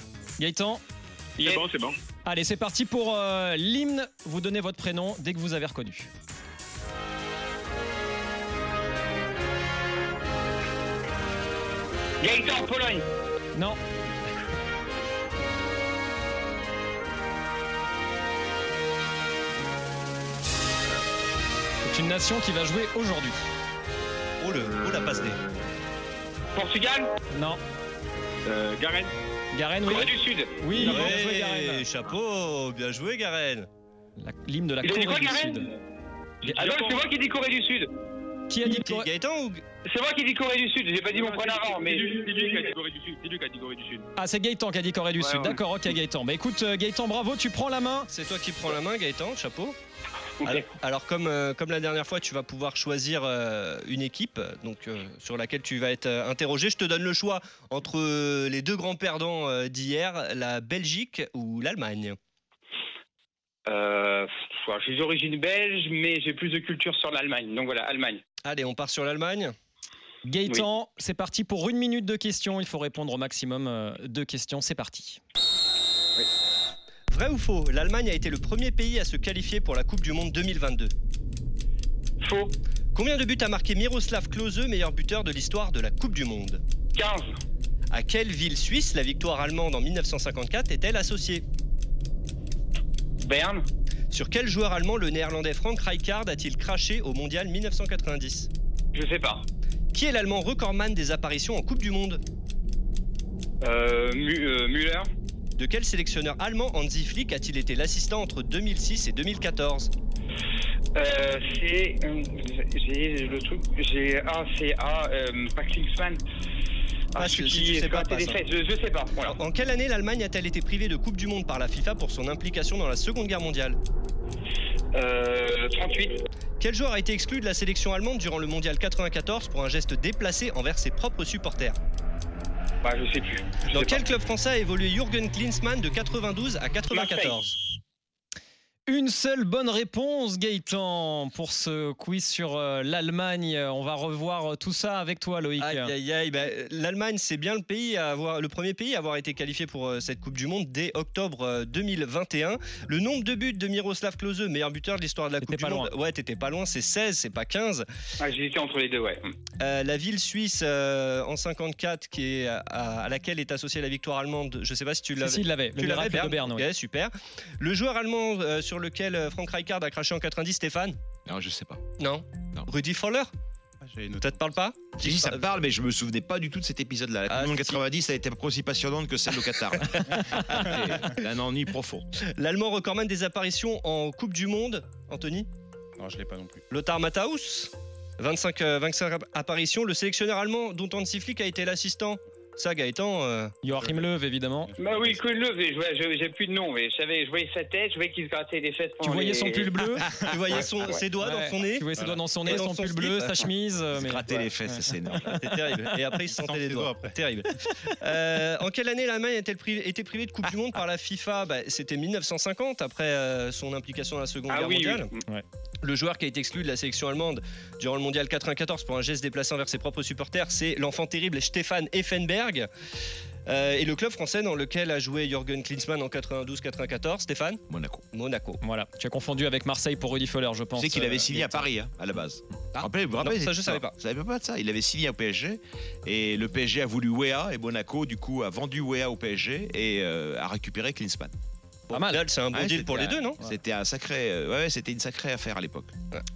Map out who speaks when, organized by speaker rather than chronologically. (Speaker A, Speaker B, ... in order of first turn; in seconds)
Speaker A: 0.4-0.8, 2.2-6.1, 13.5-13.8, 21.8-23.4, 27.3-27.6, 29.5-31.9, 34.2-35.7, 38.5-39.1, 44.1-48.1, 70.2-75.2, 138.9-145.9, 155.4-155.9, 165.2-166.7, 193.6-194.7, 199.0-200.0, 201.2-205.1, 228.6-231.7, 241.9-242.2
Speaker B: 1.4-1.9, 24.8-25.6, 28.4-29.1, 30.8-31.1, 36.5-37.0, 41.1-44.1, 45.2-45.6
Speaker C: 12.2-13.0, 26.5-27.1, 29.8-30.6, 34.8-35.6, 36.5-37.9, 39.8-42.3, 63.7-68.2, 82.2-82.5, 86.9-87.3, 93.2-93.6, 98.9-99.4, 103.6-105.1, 111.0-116.2, 117.1-119.4, 124.9-126.2, 132.8-134.0, 136.9-137.4, 158.2-159.3, 194.8-199.9, 214.5-215.2
Speaker D: 24.4-25.4, 30.7-33.7, 38.6-39.6, 48.1-49.8, 50.4-62.2, 68.4-69.5, 77.1-80.9, 82.9-86.6, 87.9-91.4, 94.1-98.5, 99.9-102.2, 105.5-109.9, 117.2-118.4, 119.2-123.8, 126.6-131.8, 133.7-137.6, 145.6-157.8, 159.6-171.0, 172.0-173.3, 174.2-175.4, 177.3-177.8, 182.3-185.5, 186.7-193.6, 200.3-201.9, 202.4-203.4, 205.2-215.1, 215.8-222.7, 223.4-228.6, 232.8-233.9, 241.9-243.4
Speaker E: 171.2-171.8, 175.0-182.1, 203.9-205.4, 227.7-228.0, 230.8-241.3, 242.5-245.9
Speaker F: 173.8-174.5, 186.0-186.6, 193.8-194.1, 194.7-195.2, 201.9-202.3, 206.3-207.2